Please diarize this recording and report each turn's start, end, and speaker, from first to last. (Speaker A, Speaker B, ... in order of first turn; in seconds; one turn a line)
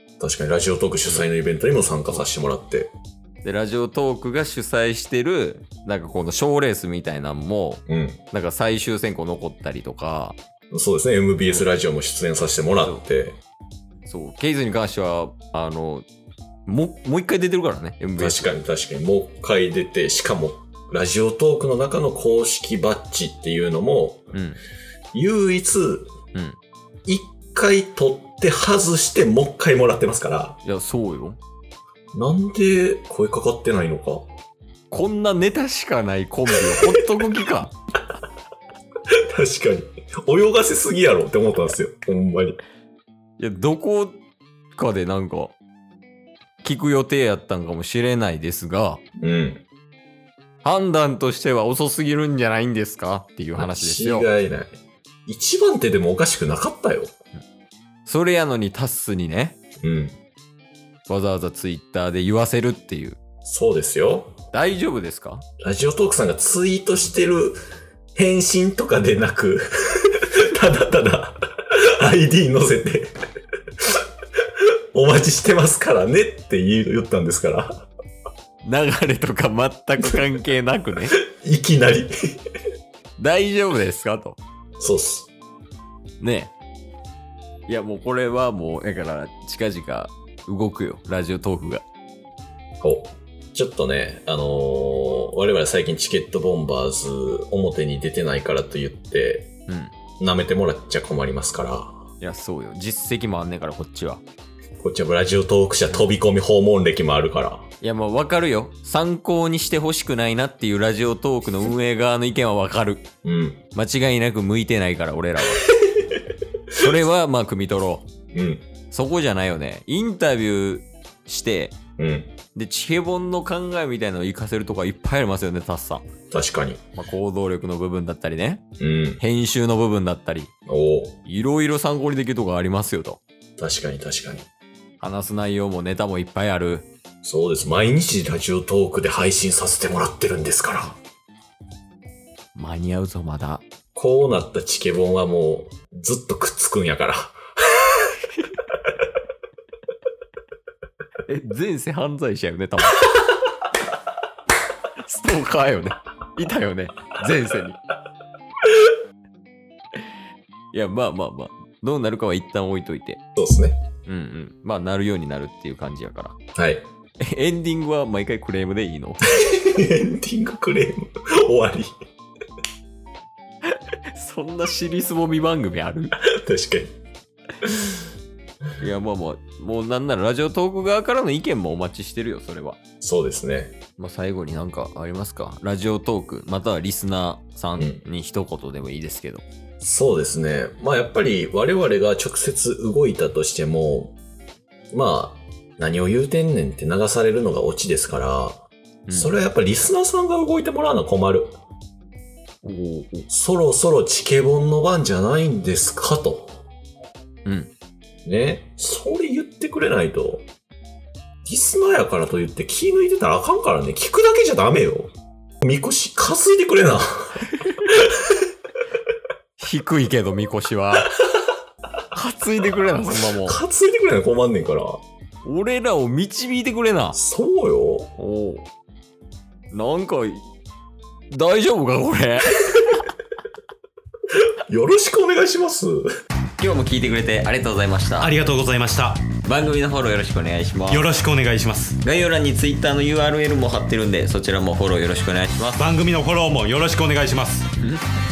Speaker A: 0.2-2.9
Speaker B: 3.4-7.8
Speaker A: 7.9-8.2
Speaker B: 8.3-10.4
Speaker A: 10.7-13.4
Speaker B: 14.0-16.1
Speaker B: 16.6-18.5
Speaker A: 18.2-24.3
Speaker B: 24.3-24.6
Speaker A: 25.1-26.1
Speaker B: 26.3-26.6
Speaker A: 27.1-30.6
Speaker B: 30.6-31.4
Speaker A: 32.1-34.3
Speaker B: 34.9-37.7
Speaker A: 36.7-37.0
Speaker A: 39.3-42.6
Speaker B: 43.4-44.2
Speaker B: 44.7-45.5
Speaker B: 46.6-49.0
Speaker A: 49.2-49.6
Speaker B: 50.6-54.3
Speaker A: 53.6-57.1
Speaker B: 58.0-59.6
Speaker A: 59.8-60.2
Speaker B: 61.1-63.2
Speaker A: 63.4-64.4
Speaker B: 64.5-65.4
Speaker A: 65.6-67.6
Speaker A: 68.1-71.4
Speaker A: 72.0-73.1
Speaker A: 74.6-77.9
Speaker B: 78.6-81.2
Speaker A: 81.1-82.1
Speaker B: 83.2-84.4
Speaker A: 84.8-85.3
Speaker B: 86.2-86.5
Speaker B: 87.7-91.8
Speaker A: 92.8-99.5
Speaker B: 99.7-99.9
Speaker A: 100.2-102.0
Speaker B: 102.2-104.2
Speaker A: 104.8-107.7
Speaker B: 107.8-113.0
Speaker A: 113.2-113.6
Speaker B: 113.7-115.7
Speaker A: 115.7-116.2
Speaker B: 116.8-118.1
Speaker A: 118.3-118.6
Speaker B: 118.9-121.8
Speaker A: 122.0-122.3
Speaker B: 122.5-126.1
Speaker A: 126.3-126.8
Speaker B: 127.0-128.6
Speaker A: 128.8-129.2
Speaker B: 129.2-130.5
Speaker A: 130.7-131.2
Speaker B: 131.2-133.2
Speaker A: 133.6-134.5
Speaker B: 135.0-136.9
Speaker A: 137.2-141.0
Speaker B: 142.5-143.7
Speaker A: 143.9-148.0
Speaker B: 151.3-153.2
Speaker B: 155.0-157.8
Speaker B: 160.7-163.2
Speaker A: 163.3-163.8
Speaker B: 164.1-166.3
Speaker A: 166.6-166.9
Speaker B: 167.2-169.2
Speaker A: 169.3-171.9
Speaker B: 173.7-176.1
Speaker A: 176.2-177.0
Speaker A: 177.6-178.0
Speaker B: 178.8-182.8
Speaker A: 183.0-183.8
Speaker B: 184.0-189.4
Speaker A: 189.8-194.2
Speaker A: 194.9-201.5
Speaker B: 199.1-199.3
Speaker B: 202.6-203.2
Speaker A: 203.3-206.6
Speaker B: 207.4-207.7
Speaker A: 208.2-210.5
Speaker A: 211.4-218.4
Speaker B: 219.6-221.2
Speaker B: 222.1-223.6
Speaker A: 223.4-225.0
Speaker B: 225.4-227.2
Speaker A: 227.1-228.1
Speaker B: 228.2-228.7
Speaker B: 229.7-230.5
Speaker B: 231.3-233.1
Speaker A: 234.7-236.1
Speaker B: 236.6-238.3
Speaker C: 238.2-239.3
Speaker B: 239.4-241.1
Speaker C: 240.9-242.0
Speaker B: 242.0-245.8
Speaker C: 245.7-247.7
Speaker B: 247.8-248.0